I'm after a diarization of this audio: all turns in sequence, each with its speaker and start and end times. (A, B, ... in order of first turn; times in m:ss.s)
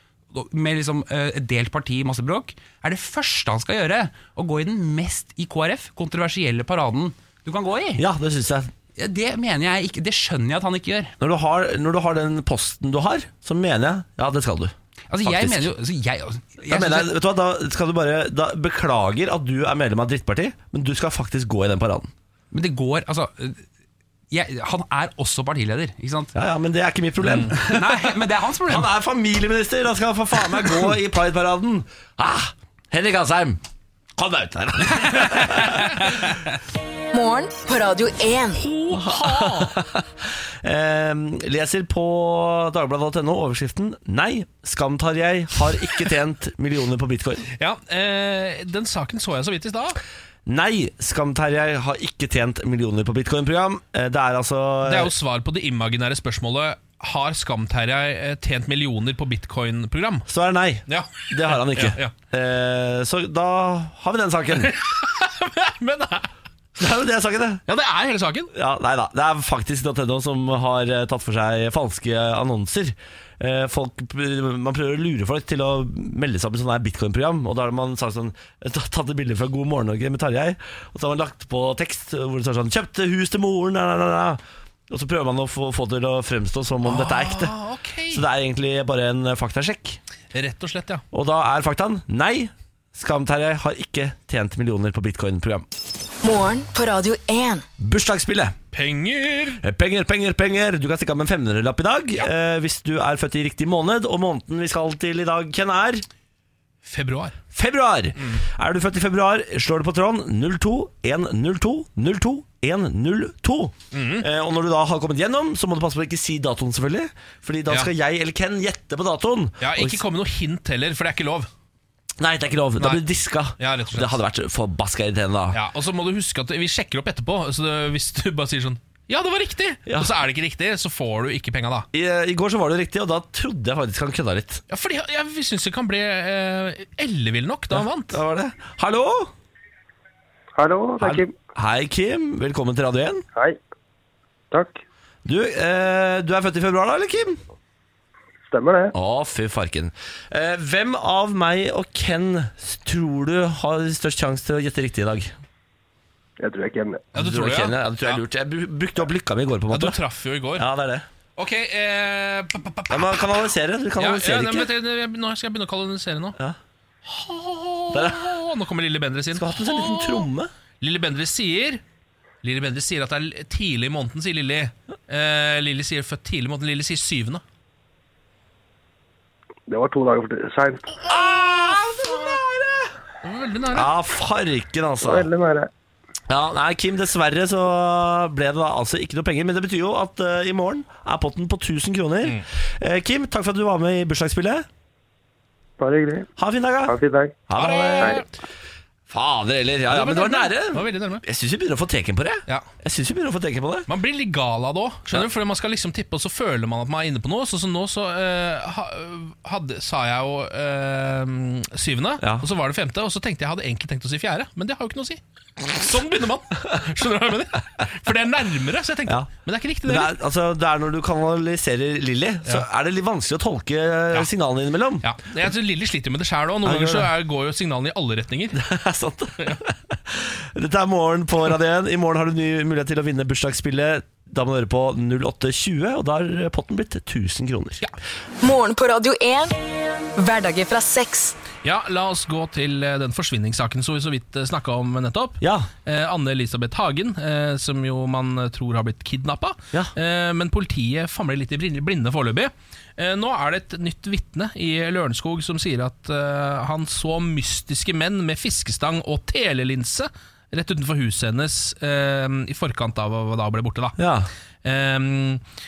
0:00.3-0:08.0 A
0:08.0-0:08.7 B
0:08.9-0:11.1 A
0:11.2-0:15.7 B
0:15.1-0:17.1 A
0:16.7-0:22.1 B
0:22.5-0:23.6 A
0:24.3-0:26.3 A
0:26.3-0:28.1 B
0:27.2-0:27.5 C
0:27.4-0:28.9 A
0:28.6-0:33.6 B
0:34.2-0:36.2 B
0:35.4-0:35.9 A
0:37.1-0:38.6 D
0:38.5-0:39.8 C
0:38.9-0:47.5 B
0:47.6-0:50.0 C
0:50.4-0:55.1 B
0:54.8-1:00.3 C
1:00.3-1:04.7 B
1:00.9-1:02.1 C
1:04.6-1:06.3 C
1:06.8-1:07.6 B
1:07.7-1:08.5 C
1:08.5-1:27.5 B
1:26.8-1:28.2 C
1:28.1-1:30.0 B
1:30.3-1:31.0 C
1:31.1-1:35.7 B
1:36.2-1:37.6 D
1:37.8-1:38.6 B
1:38.7-1:39.6 C
1:39.6-1:46.0 B
1:46.8-1:47.4 C
1:47.5-2:00.0 B
1:53.9-1:54.2 C
1:59.6-2:01.5 C
2:02.2-2:05.6 B
2:03.6-2:04.2 C
2:05.5-2:11.9 C
2:09.8-2:10.1 B
2:11.9-2:14.6 B
2:14.7-2:18.2 C
2:17.7-2:19.3 B
2:20.6-2:21.3 E
2:21.0-2:23.2 B
2:24.5-2:24.8 E
2:25.2-2:27.4 B
2:28.5-2:28.9 E
2:28.9-2:35.3 B
2:36.4-2:37.0 E
2:37.1-2:38.2 C
2:37.1-2:40.0 B
2:39.7-2:40.7 C
2:40.5-2:41.0 B
2:41.4-2:43.3 C
2:42.9-2:44.7 B
2:44.0-2:46.4 C
2:47.1-2:50.2 C
2:47.9-2:48.3 B
2:49.3-2:50.5 B
2:50.8-2:51.8 C
2:52.4-2:57.4 C
2:59.7-3:01.0 E
3:01.0-3:02.4 C
3:01.0-3:02.9 B
3:03.2-3:03.9 C
3:03.7-3:05.3 B
3:05.0-3:05.7 E
3:06.3-3:14.7 B
3:15.8-3:16.3 E
3:16.4-3:18.2 B
3:16.8-3:17.4 E
3:17.6-3:18.3 C
3:19.1-3:23.9 B
3:19.9-3:21.2 C
3:23.9-3:40.1 C
3:32.2-3:32.5 B
3:39.8-3:45.0 B
3:45.0-3:48.6 C
3:46.6-3:47.1 B
3:48.5-3:57.8 B
3:58.4-3:59.6 D
4:00.2-4:01.4 D
4:01.6-4:24.0 C
4:05.4-4:05.7 B
4:24.0-4:24.3 B
4:24.6-4:25.4 C